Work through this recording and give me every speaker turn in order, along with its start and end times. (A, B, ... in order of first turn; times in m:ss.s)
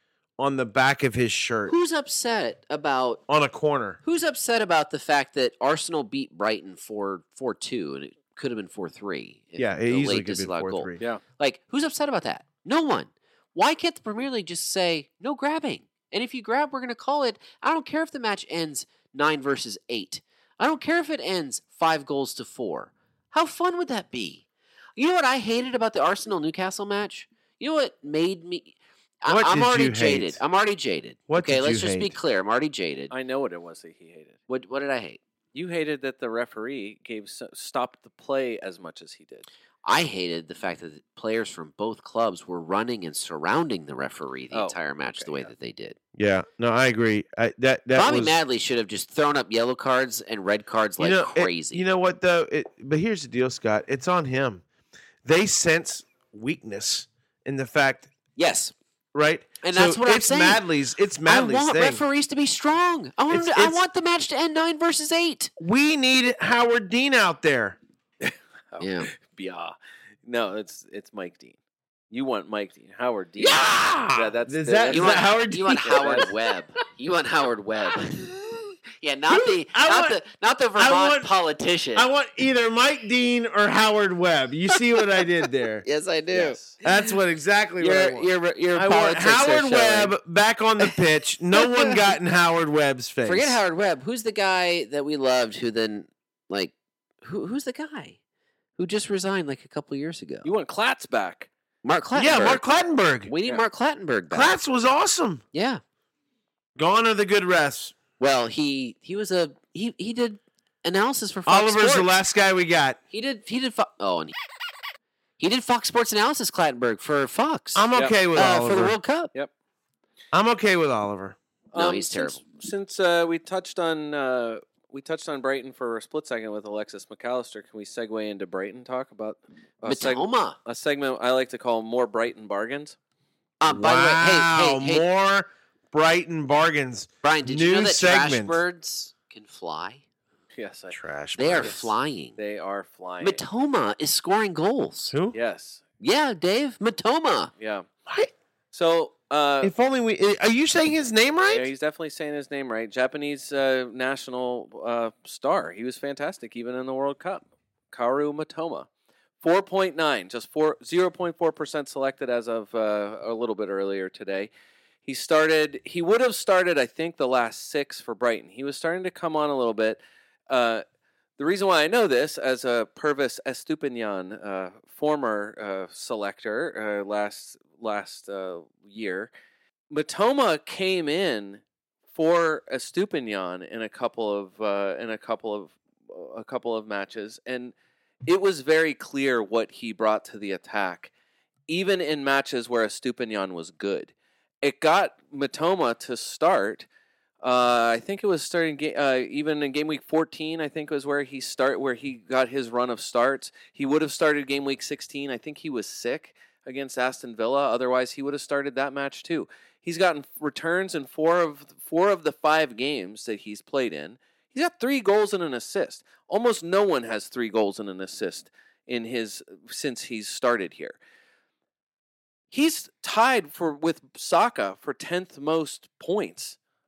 0:00.4-0:01.7 A
0:01.7-0:03.2 B
0:03.3-0:04.0 A
0:04.0-0:24.4 B
0:09.6-0:11.0 A
0:25.0-0:33.1 B
0:29.3-0:30.4 A
0:31.3-0:32.2 A
0:33.1-0:34.4 C
0:34.5-0:35.2 B
0:35.5-0:39.5 C
0:39.8-0:46.0 B
0:44.5-0:45.5 C
0:46.1-0:48.4 A
0:47.9-0:51.8 B
0:51.0-0:54.6 A
0:55.2-0:58.1 A
0:58.4-0:58.7 B
0:59.1-1:02.0 A
0:59.6-1:00.6 B
1:01.2-1:05.5 B
1:03.3-1:03.8 A
1:05.6-1:07.8 A
1:08.2-1:09.7 C
1:08.8-1:09.1 B
1:10.2-1:11.6 C
1:12.1-1:15.3 C
1:13.4-1:16.3 A
1:14.9-1:18.3 B
1:15.8-1:16.3 C
1:18.0-1:18.6 A
1:19.0-1:22.1 B
1:19.3-1:20.2 A
1:20.8-1:21.3 A
1:21.9-1:25.8 A
1:25.8-1:27.1 B
1:26.3-1:26.7 C
1:26.8-1:33.6 A
1:27.8-1:30.1 B
1:31.5-1:32.1 B
1:33.2-1:38.2 B
1:38.8-1:40.5 B
1:40.4-1:41.5 C
1:41.8-1:42.6 B
1:42.1-1:43.3 A
1:43.3-1:44.6 B
1:44.3-1:45.4 A
1:45.5-1:45.8 B
1:46.8-1:47.9 A
1:48.2-1:52.1 B
1:51.5-1:53.0 A
1:53.1-1:54.3 B
1:55.4-1:59.3 B
1:57.7-1:59.0 A
2:00.3-2:01.4 A
2:01.7-2:13.0 C
2:01.7-2:02.4 B
2:09.8-2:10.6 B
2:13.6-2:15.0 B
2:13.6-2:18.6 A
2:17.2-2:20.0 B
2:20.6-2:21.0 C
2:20.9-2:21.8 A
2:21.4-2:22.4 B
2:21.6-2:23.4 C
2:23.2-2:25.1 B
2:25.1-2:25.4 A
2:25.3-2:25.8 C
2:26.0-2:27.5 B
2:27.6-2:27.9 C
2:28.7-2:29.7 C
2:29.6-2:31.7 A
2:31.5-2:38.9 C
2:39.4-2:44.5 C
2:45.0-2:50.8 C
2:51.4-2:59.3 C
2:59.9-3:07.7 C
3:08.3-3:11.1 C
3:11.7-3:16.9 C
3:17.4-3:41.0 C
3:42.5-3:46.6 C